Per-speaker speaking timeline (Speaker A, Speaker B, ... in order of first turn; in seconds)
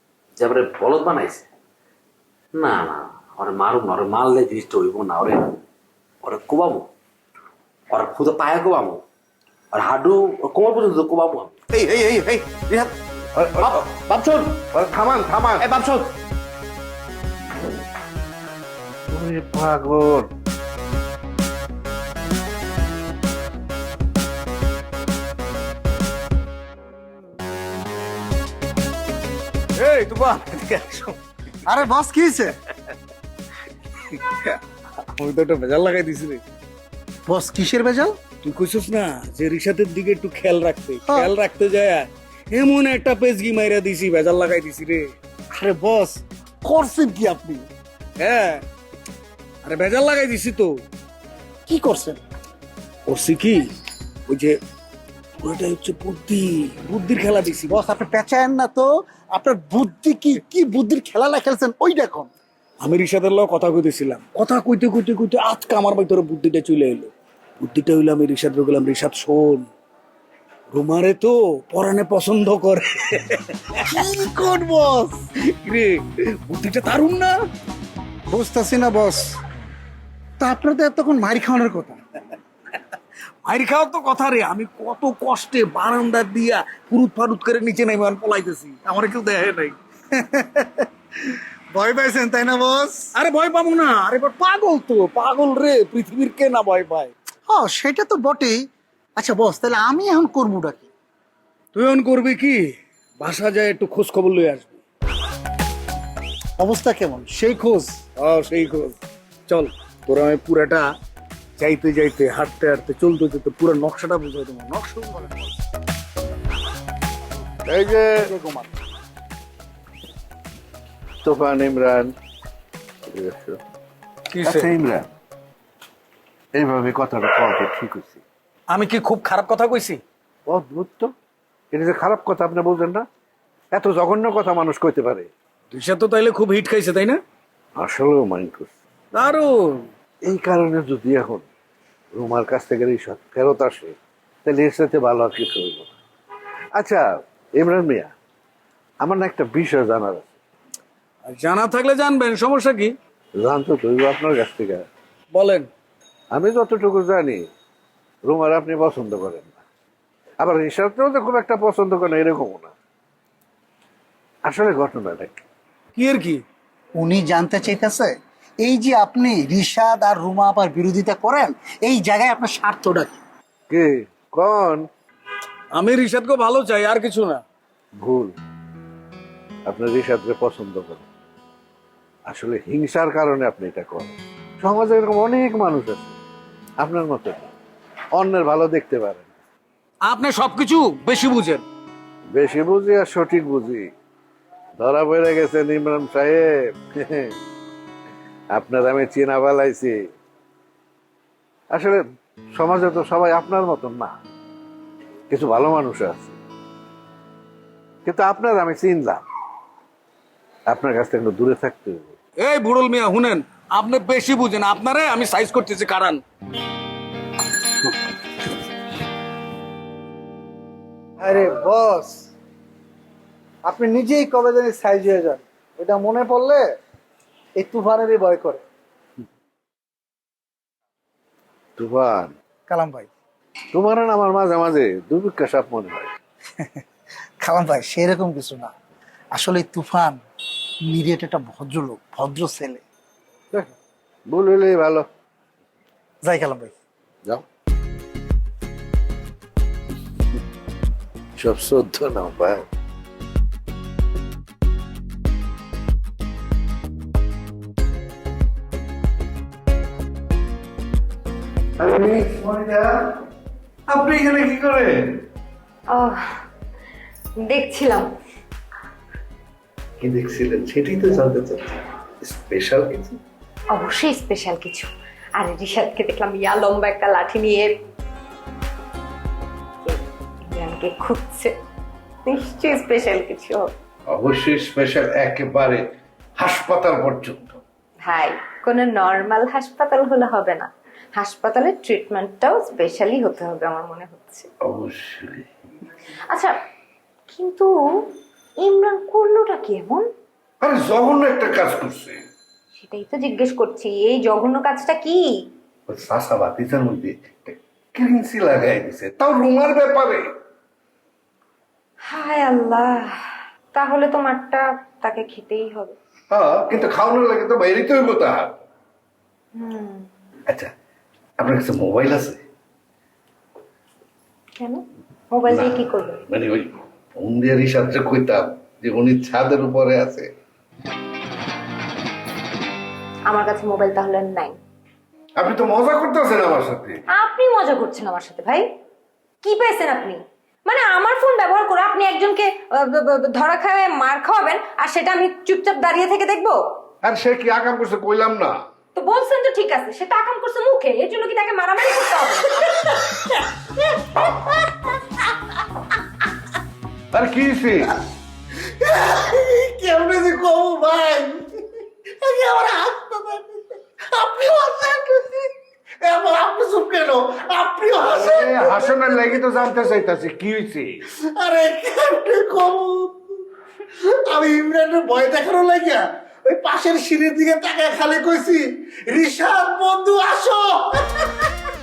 Speaker A: 0.4-1.5, 2.5-5.6, 6.2-6.8, 7.9-9.0, 9.7-11.6
Speaker B: 11.7-12.9, 13.6-14.6, 15.6-16.1
Speaker C: 13.4-13.8, 14.7-15.7, 19.1-20.3, 117.7-118.3, 121.2-122.1, 123.1-123.6, 124.4-125.1, 126.5-128.2, 130.5-131.1, 131.7-133.1, 133.7-135.3, 137.8-138.7, 140.3-141.4, 142.1-145.9, 146.8-147.0, 147.6-148.1, 149.0-150.3, 153.4-154.9, 156.3-157.4, 158.2-159.6, 160.4-162.7, 164.4-165.3, 173.7-174.9, 178.0-178.3, 179.7-181.1, 182.3-186.1, 186.8-187.5, 188.2-189.3, 192.3-193.9, 194.8-197.3, 198.6-199.9, 201.7-202.0, 202.5-204.1, 205.3-206.3, 208.1-209.2, 210.7-212.2, 231.8-232.3, 233.7-236.1, 244.3-245.1, 251.4-252.6, 261.8-263.1, 263.9-265.2, 270.0-273.2, 284.1-285.8, 286.4-287.6, 294.6-295.5, 300.6-302.2, 305.9-310.3, 316.3-318.6, 321.4-322.4, 325.5-330.3, 335.4-337.0, 347.0-348.6, 357.1-357.9, 368.0-371.0
Speaker D: 29.8-31.2, 34.1-34.6, 35.1-36.4, 38.4-45.1, 48.2-48.6, 49.6-50.8, 53.1-53.7, 54.3-54.6, 55.4-57.8, 62.8-69.7, 70.7-73.8, 75.5-77.4, 83.4-89.8, 93.2-97.1, 101.7-104.8, 108.2-109.0, 109.5-110.9, 111.6-115.2, 124.3-124.6, 128.7-130.0, 135.7-137.2, 139.1-139.9, 151.3-152.9, 155.3-155.7, 165.9-166.4, 175.7-177.4, 190.1-191.6, 212.4-216.2
Speaker E: 31.6-32.5, 37.3-38.1, 41.0-41.3, 45.5-47.7, 51.7-52.2, 57.7-62.3, 73.9-75.2, 78.3-79.3, 80.4-82.0, 90.2-90.8, 91.7-93.1, 97.5-98.6, 99.2-100.9, 106.6-108.0, 118.2-118.7, 167.0-173.1, 221.2-222.2, 223.7-226.7, 227.6-228.6, 232.7-233.1, 237.4-238.7, 239.3-240.2, 240.9-242.8, 246.2-246.7, 358.7-365.5, 366.0-369.1, 371.2-373.2, 374.1-381.5
Speaker F: 265.9-266.2, 267.4-268.1, 273.7-277.8, 280.5-281.6, 282.2-283.7, 288.0-294.5, 297.3-297.7, 298.6-300.1, 302.8-305.3, 312.1-313.1, 313.7-315.9, 319.6-320.1, 324.6-326.2, 333.3-334.6, 337.1-338.6, 339.4-346.6, 348.9-353.3